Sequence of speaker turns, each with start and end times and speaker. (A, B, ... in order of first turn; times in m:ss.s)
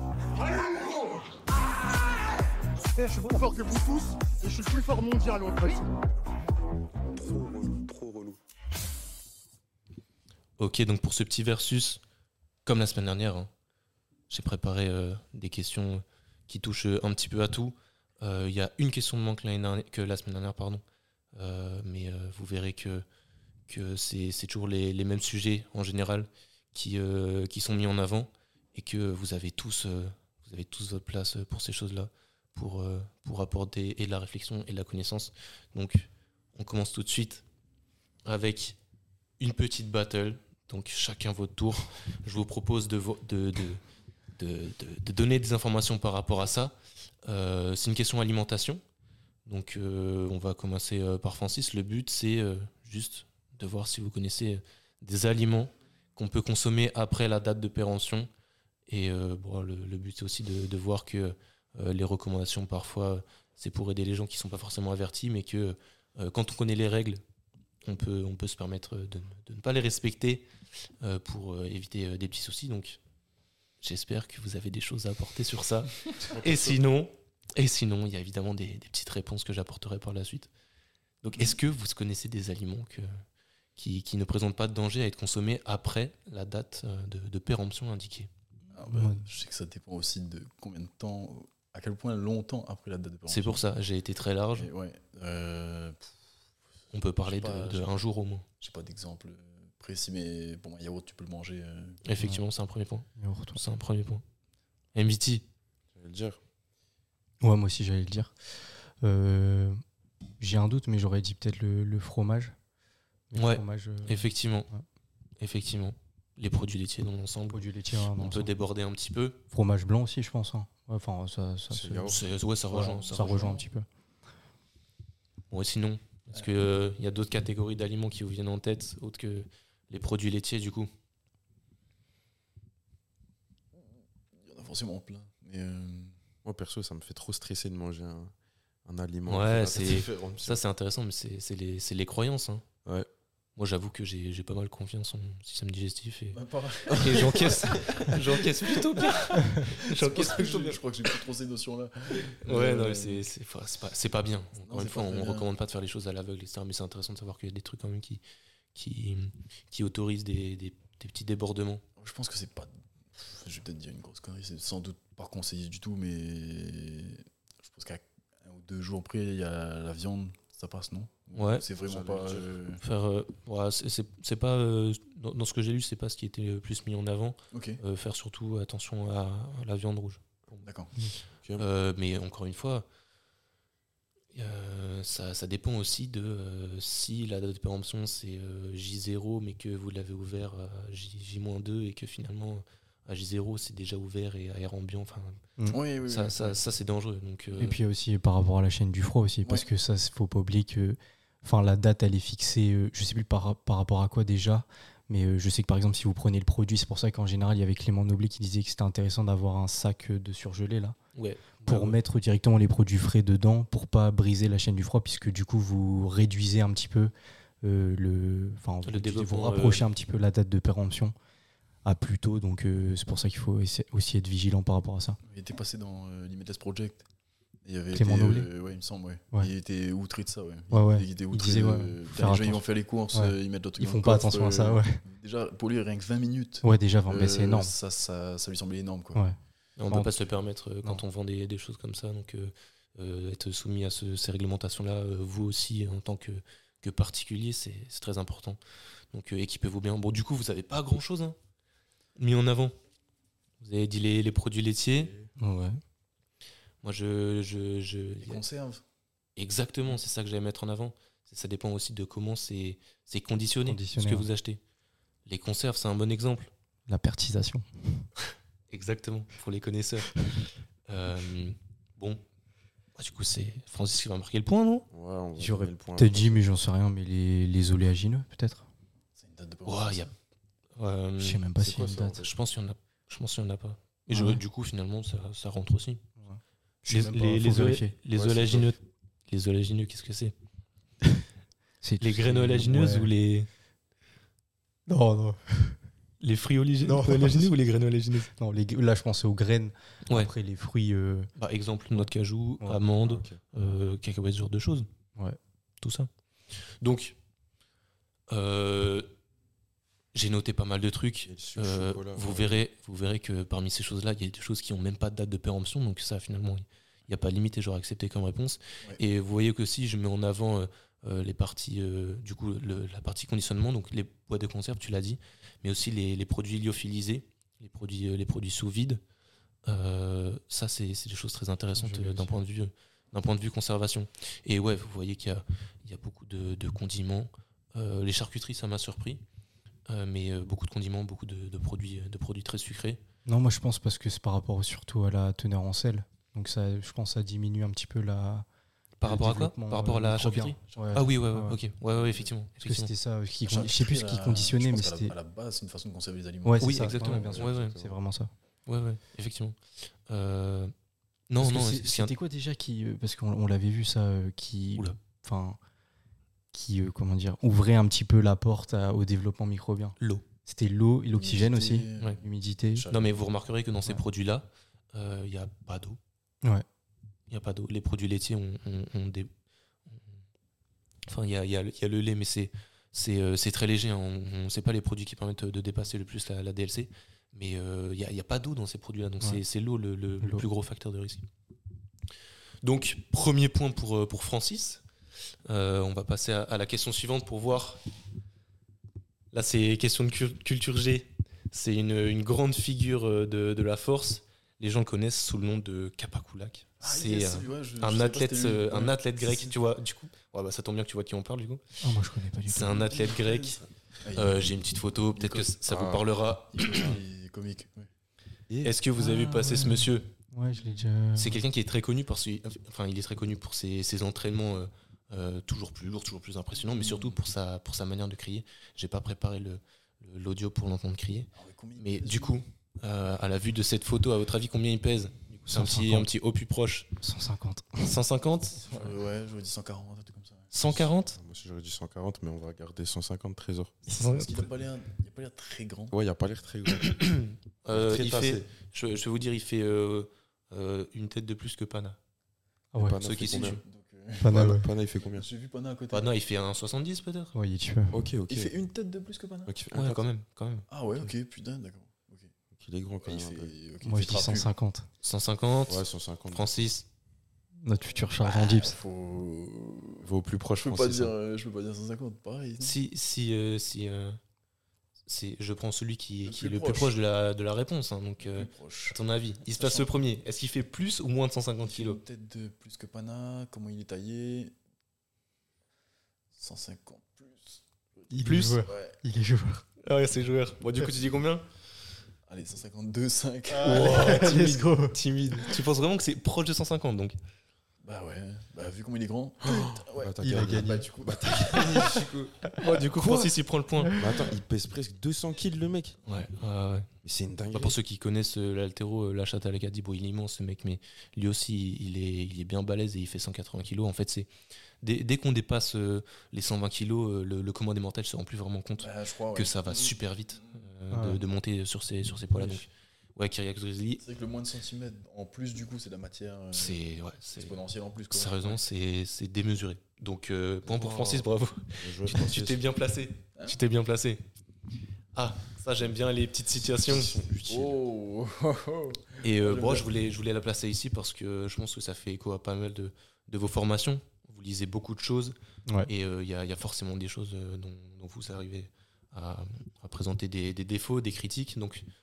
0:03.0-0:05.8 A
0:07.1-0:08.4 A
0:10.6-0:12.0 B
0:12.6-0:13.5 B
0:14.3-0:20.8 B
0:21.3-0:23.0 B
0:23.7-0:37.4 B
0:38.2-0:38.8 B
0:39.4-0:43.8 B
0:44.4-0:48.8 B
0:49.4-0:58.3 B
0:58.9-1:07.2 B
1:07.8-1:10.5 B
1:11.0-1:13.0 B
1:13.8-1:20.5 B
1:16.2-1:16.8 C
1:21.2-1:23.1 B
1:23.8-1:28.3 B
1:28.7-1:33.6 D
1:28.9-1:29.2 E
1:33.3-1:34.7 B
1:34.6-1:36.1 D
1:36.9-1:38.4 B
1:37.2-1:38.0 D
1:38.6-1:42.0 D
1:42.0-1:44.2 B
1:43.2-1:43.6 E
1:44.9-1:45.4 B
1:45.9-1:46.4 C
1:47.4-1:48.3 E
1:49.0-1:49.8 E
1:50.4-1:52.5 E
1:53.3-1:54.8 E
1:53.4-1:54.7 B
1:55.4-1:57.6 B
1:57.5-1:58.5 E
1:58.2-1:59.4 B
1:59.5-2:03.9 E
2:01.7-2:02.2 C
2:02.1-2:03.6 B
2:03.0-2:03.7 D
2:05.5-2:10.9 B
2:14.4-2:16.1 D
2:16.4-2:18.3 C
2:18.8-2:20.6 C
2:19.3-2:22.6 B
2:23.6-2:26.4 B
2:26.3-2:28.0 D
2:26.9-2:28.2 C
2:27.0-2:30.8 B
2:29.2-2:33.3 D
2:32.4-2:38.2 B
2:34.7-2:35.5 D
2:38.7-2:41.8 B
2:42.0-2:52.8 D
2:51.3-2:51.6 B
2:51.8-2:52.5 C
2:52.8-3:00.6 B
2:57.5-2:57.8 D
3:00.6-3:00.9 D
3:01.6-3:02.8 B
3:04.3-3:15.4 B
3:15.7-3:16.6 D
3:16.0-3:17.8 B
3:17.5-3:31.0 E
3:31.1-3:32.0 B
3:31.6-3:41.1 E
3:38.8-3:39.8 B
3:41.8-3:45.2 E
3:45.2-3:47.0 D
3:47.6-3:59.2 D
3:47.9-3:48.5 E
3:50.7-3:52.6 E
3:53.1-3:55.0 E
3:56.6-3:57.7 E
3:59.8-4:08.6 B
4:09.1-4:11.4 B
4:12.2-4:12.7 B
4:13.6-4:15.1 B
4:15.4-4:15.8 E
4:16.8-4:18.4 B
4:18.2-4:18.8 D
4:19.4-4:24.6 B
4:23.6-4:24.3 E
4:25.2-4:26.5 B
4:26.9-4:28.0 E
4:28.7-4:30.1 B
4:30.9-4:32.2 B
4:33.0-4:34.9 B
4:34.9-4:36.4 C
4:35.4-4:38.6 E
4:39.2-4:40.1 D
4:39.6-4:40.1 B
4:40.8-4:41.4 B
4:41.2-4:42.2 E
4:41.6-4:42.3 C
4:42.2-4:46.0 B
4:44.1-4:44.4 E
4:46.2-4:47.9 E
4:46.9-4:50.3 B
4:48.1-4:48.7 C
4:51.8-4:53.1 E
4:52.0-4:53.5 B
4:54.9-4:55.8 E
4:56.2-4:58.3 B
4:56.8-4:57.5 E
4:58.3-5:01.3 E
5:01.4-5:04.9 B
5:03.0-5:03.4 C
5:05.8-5:06.1 B
5:06.8-5:07.2 B
5:08.3-5:09.1 B
5:10.1-5:29.0 B
5:11.2-5:12.6 C
5:29.6-5:39.2 B
5:31.8-5:32.4 E
5:39.9-5:43.0 B
5:43.2-5:48.5 E
5:49.0-5:52.9 B
5:49.0-5:51.6 E
5:50.7-5:51.1 D
5:52.0-5:52.3 D
5:52.6-5:55.1 E
5:53.4-5:57.3 D
5:56.4-5:58.3 E
5:56.6-5:57.8 B
5:57.2-5:58.0 C
5:58.7-5:59.6 B
6:00.1-6:00.7 B
6:01.3-6:02.1 B
6:01.4-6:05.6 E
6:06.5-6:12.9 E
6:10.0-6:10.2 B
6:11.1-6:13.2 D
6:12.9-6:16.0 B
6:17.3-6:19.3 B
6:21.1-6:31.2 B
6:32.6-6:34.8 B
6:35.5-6:37.8 B
6:39.3-6:51.7 B
6:46.8-6:49.6 D
6:51.8-6:52.9 E
6:52.4-6:57.0 B
6:52.8-6:54.5 D
6:55.1-6:55.6 D
6:55.7-6:56.0 C
6:56.5-6:57.9 D
6:58.5-6:58.8 C
6:58.6-7:00.1 B
6:59.0-7:01.4 E
7:00.5-7:00.8 D
7:01.1-7:16.9 B
7:06.5-7:07.2 D
7:11.3-7:12.4 D
7:15.5-7:16.1 E
7:17.0-7:17.9 E
7:17.8-7:18.6 B
7:18.6-7:18.9 E
7:18.6-7:20.5 D
7:20.5-7:21.2 B
7:21.1-7:23.8 C
7:23.9-7:24.4 B
7:23.9-7:26.0 D
7:25.9-7:28.5 C
7:26.8-7:32.0 B
7:32.7-7:33.0 E
7:32.7-7:33.6 C
7:33.0-7:33.6 B
7:33.3-7:36.1 D
7:34.2-7:34.7 E
7:34.2-7:35.3 C
7:35.9-7:37.3 B
7:37.3-7:38.0 E
7:37.9-7:38.5 C
7:38.3-7:39.5 D
7:39.5-7:40.0 C
7:39.7-7:40.6 B
7:40.7-7:42.3 D
7:42.5-7:43.5 C
7:43.0-7:44.5 D
7:43.8-7:44.9 E
7:45.0-7:46.8 B
7:45.7-7:46.6 C
7:47.6-7:48.8 E
7:47.8-7:50.1 D
7:50.0-7:51.1 C
7:50.6-7:52.8 D
7:52.6-7:54.2 B
7:55.1-8:02.0 B
7:56.2-7:57.0 D
7:58.2-8:00.0 D
8:01.6-8:04.5 D
8:06.3-8:08.1 D
8:08.1-8:09.6 E
8:08.2-8:08.6 B
8:08.6-8:09.0 D
8:09.8-8:11.4 B
8:12.3-8:14.2 D
8:13.5-8:14.9 E
8:13.6-8:17.2 B
8:17.8-8:21.9 D
8:19.4-8:23.4 C
8:20.2-8:20.9 E
8:22.6-8:23.9 B
8:23.8-8:24.1 E
8:23.9-8:26.0 C
8:26.0-8:26.9 B
8:27.0-8:27.8 C
8:27.5-8:34.3 B
8:34.8-8:44.0 B
8:38.8-8:40.6 D
8:40.9-8:41.2 E
8:44.0-8:46.8 D
8:46.5-8:47.6 B
8:47.4-8:48.6 D
8:48.1-8:54.2 B
8:50.7-8:51.2 D
8:51.8-8:52.6 C
8:55.1-8:57.3 B
8:56.9-8:57.7 C
8:57.4-8:59.9 D
8:59.2-9:05.3 B
9:05.9-9:11.8 B